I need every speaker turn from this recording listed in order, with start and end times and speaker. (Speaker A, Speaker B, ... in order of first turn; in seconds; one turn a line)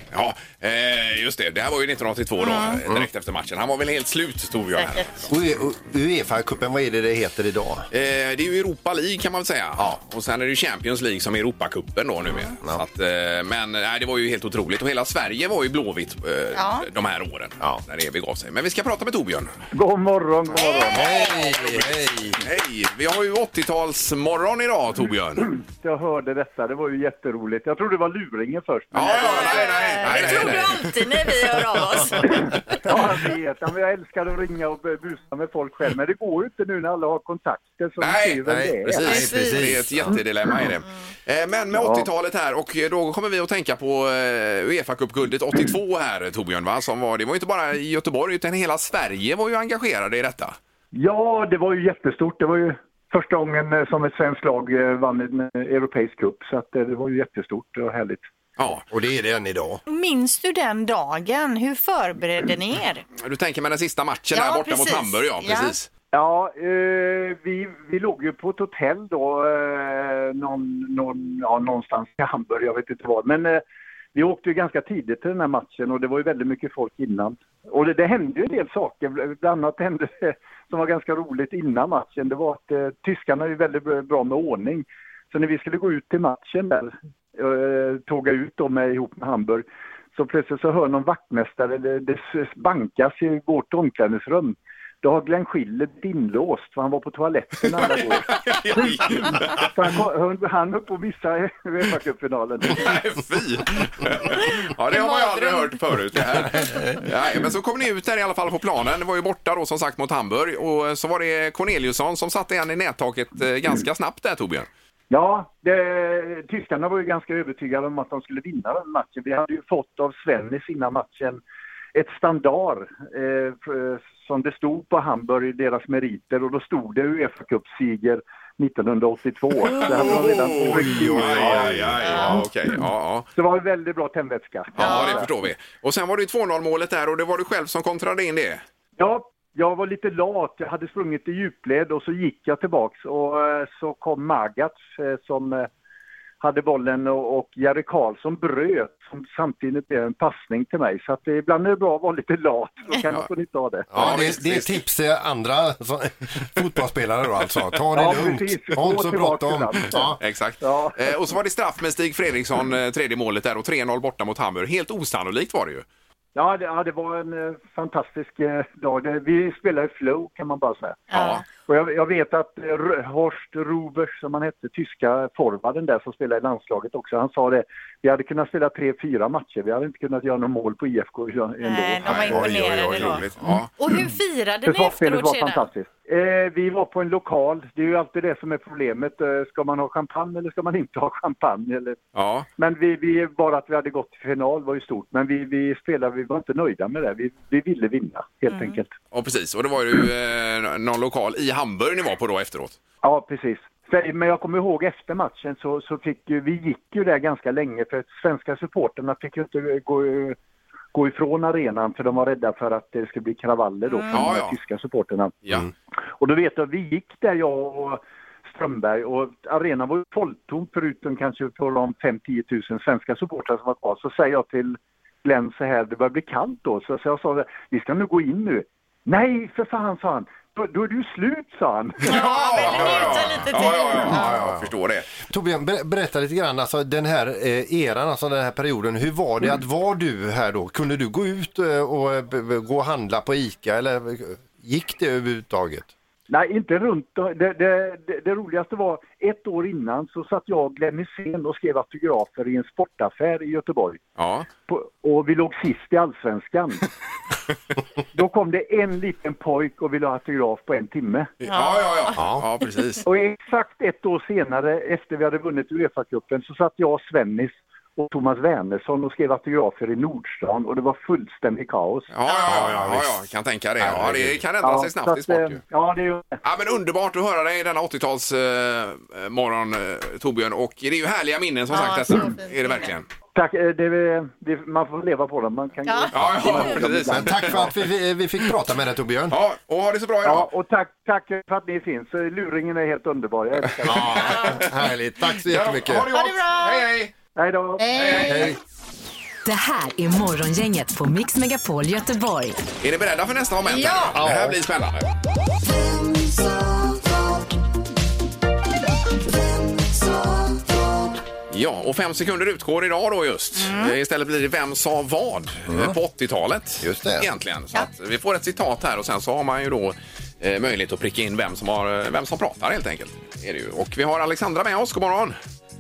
Speaker A: 0.1-5.3
Speaker B: 2.4-2.8
Speaker B: 4.8-5.1
Speaker C: 5.3-7.9
Speaker A: 7.9-19.5
Speaker B: 16.5-16.9
Speaker D: 19.7-21.0
Speaker B: 20.6-21.4
Speaker C: 20.9-22.4
Speaker A: 22.4-25.5
Speaker D: 25.4-29.3
Speaker A: 28.9-30.9
Speaker B: 29.0-32.5
Speaker D: 32.3-39.1
Speaker A: 38.0-50.6
Speaker C: 38.5-40.2
Speaker B: 39.0-39.6
Speaker D: 41.7-42.1
Speaker D: 50.9-58.2
Speaker A: 58.6-58.8
Speaker C: 58.9-59.8
Speaker B: 59.9-63.0
Speaker A: 63.2-65.9
Speaker B: 64.3-65.7
Speaker D: 66.1-73.6
Speaker D: 74.2-103.0
Speaker A: 97.8-99.7
Speaker A: 102.7-114.7
Speaker B: 104.9-105.8
Speaker D: 115.1-121.4
Speaker D: 121.9-131.8
Speaker A: 129.7-133.3
Speaker C: 129.8-132.5
Speaker D: 133.3-135.3
Speaker A: 134.8-138.6
Speaker B: 134.9-135.2
Speaker D: 139.0-145.7
Speaker D: 146.4-153.9
Speaker C: 153.9-160.2
Speaker A: 153.9-154.8
Speaker D: 157.9-160.0
Speaker A: 160.2-165.8
Speaker D: 160.6-161.1
Speaker D: 166.3-182.2
Speaker B: 171.1-171.4
Speaker A: 171.1-171.4
Speaker B: 181.6-185.7
Speaker C: 182.1-183.3
Speaker A: 182.1-183.7
Speaker D: 184.7-192.0
Speaker A: 192.2-192.5
Speaker D: 192.6-198.9
Speaker B: 198.5-198.8
Speaker A: 199.1-202.8
Speaker D: 203.0-210.4
Speaker D: 210.9-215.4
Speaker B: 213.9-214.3
Speaker A: 214.1-214.6
Speaker D: 216.2-232.2
Speaker B: 232.0-234.4
Speaker A: 232.1-235.1
Speaker C: 234.1-234.7
Speaker C: 235.3-245.9
Speaker D: 246.3-254.0
Speaker A: 254.2-254.5
Speaker D: 254.7-256.8
Speaker D: 258.1-261.3
Speaker B: 261.4-262.1
Speaker A: 261.4-263.0
Speaker C: 262.2-262.4
Speaker D: 263.1-272.1
Speaker A: 272.1-275.6
Speaker B: 272.3-272.6
Speaker C: 272.5-273.2
Speaker C: 273.8-274.4
Speaker D: 274.6-276.4
Speaker A: 276.4-283.1
Speaker B: 281.7-282.9
Speaker D: 283.3-287.7
Speaker B: 285.9-286.7
Speaker A: 286.1-287.7
Speaker C: 287.1-289.4
Speaker A: 289.3-290.5
Speaker D: 290.2-294.3
Speaker C: 293.9-296.1
Speaker A: 293.9-294.6
Speaker A: 295.4-297.1
Speaker B: 296.1-296.8
Speaker D: 297.4-298.5
Speaker B: 297.8-298.4
Speaker A: 297.9-298.5
Speaker C: 298.2-298.5
Speaker E: 299.5-302.6
Speaker A: 302.8-305.1
Speaker B: 303.6-304.2
Speaker C: 304.1-304.6
Speaker A: 311.5-325.4
Speaker B: 313.6-314.0
Speaker C: 315.7-316.0
Speaker C: 316.8-317.3